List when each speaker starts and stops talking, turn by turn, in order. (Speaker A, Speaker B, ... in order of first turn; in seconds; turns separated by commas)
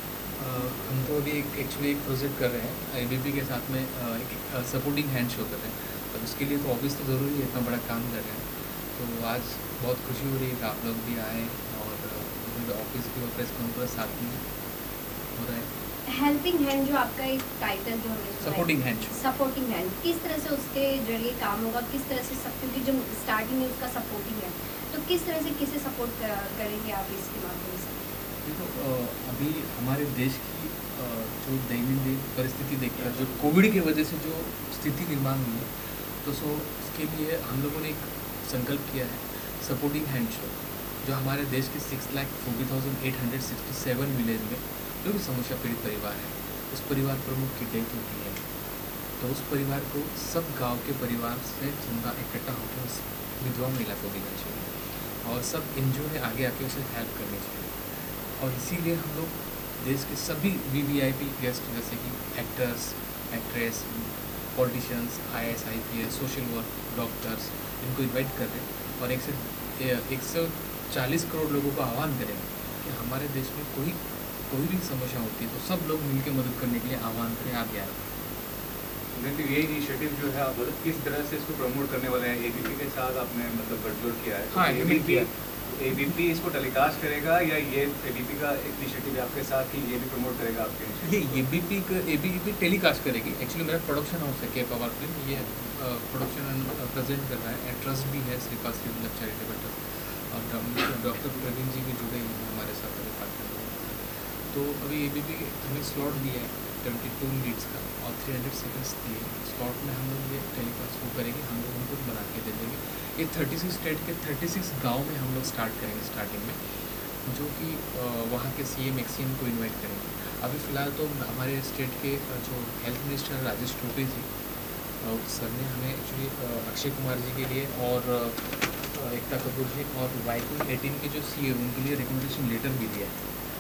Speaker A: 0.4-14.4, Speaker A: 15.3-15.7, Speaker B: 16.1-28.0, Speaker A: 18.4-19.2, Speaker A: 28.4-35.7, Speaker C: 33.0-33.3, Speaker A: 36.2-48.4, Speaker A: 49.2-54.7, Speaker A: 55.2-57.8, Speaker A: 58.4-78.0, Speaker C: 79.2-91.4, Speaker A: 84.5-85.3, Speaker A: 91.0-116.6, Speaker A: 117.2-124.3, Speaker A: 125.0-133.2